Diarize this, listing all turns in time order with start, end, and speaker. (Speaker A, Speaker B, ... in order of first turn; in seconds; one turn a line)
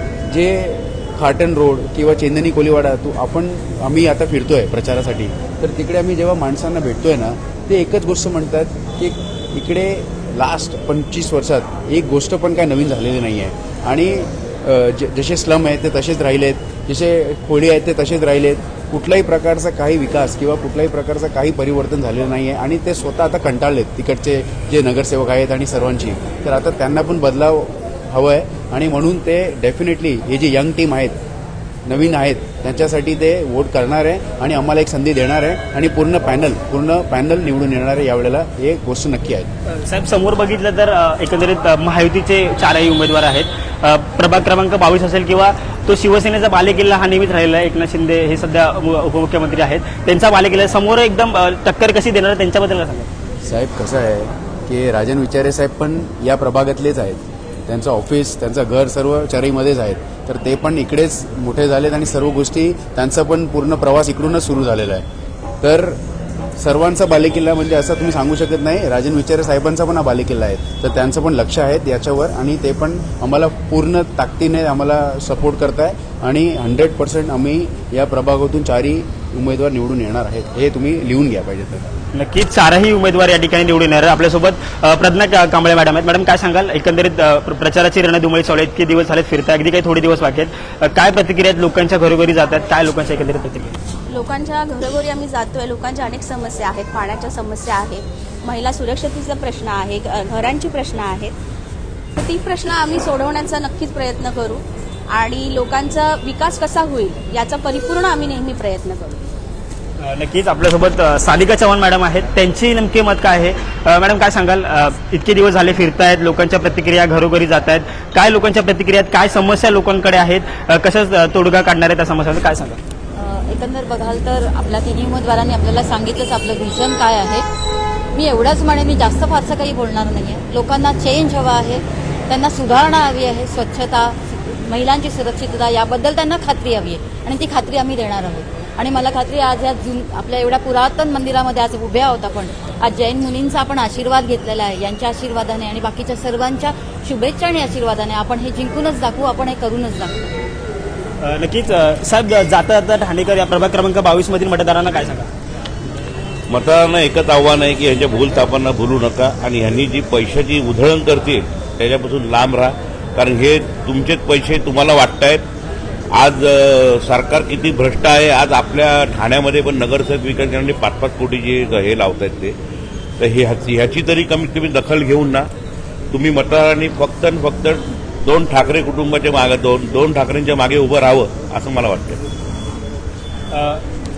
Speaker A: 0.3-31.2
Speaker A: 31.9-39.5
Speaker B: 39.7-53.1
Speaker A: 53.4-65.0
Speaker A: 65.6-66.0
Speaker A: 66.6-81.9
Speaker B: 82.1-93.8
Speaker C: 94.1-101.3
Speaker C: 102.2-109.2
Speaker B: 110.0-122.8
Speaker D: 123.2-127.4
Speaker D: 128.1-150.2
Speaker B: 151.2-155.3
Speaker E: 156.5-165.4
Speaker E: 166.1-172.6
Speaker E: 173.2-175.5
Speaker E: 176.1-182.2
Speaker B: 183.5-183.8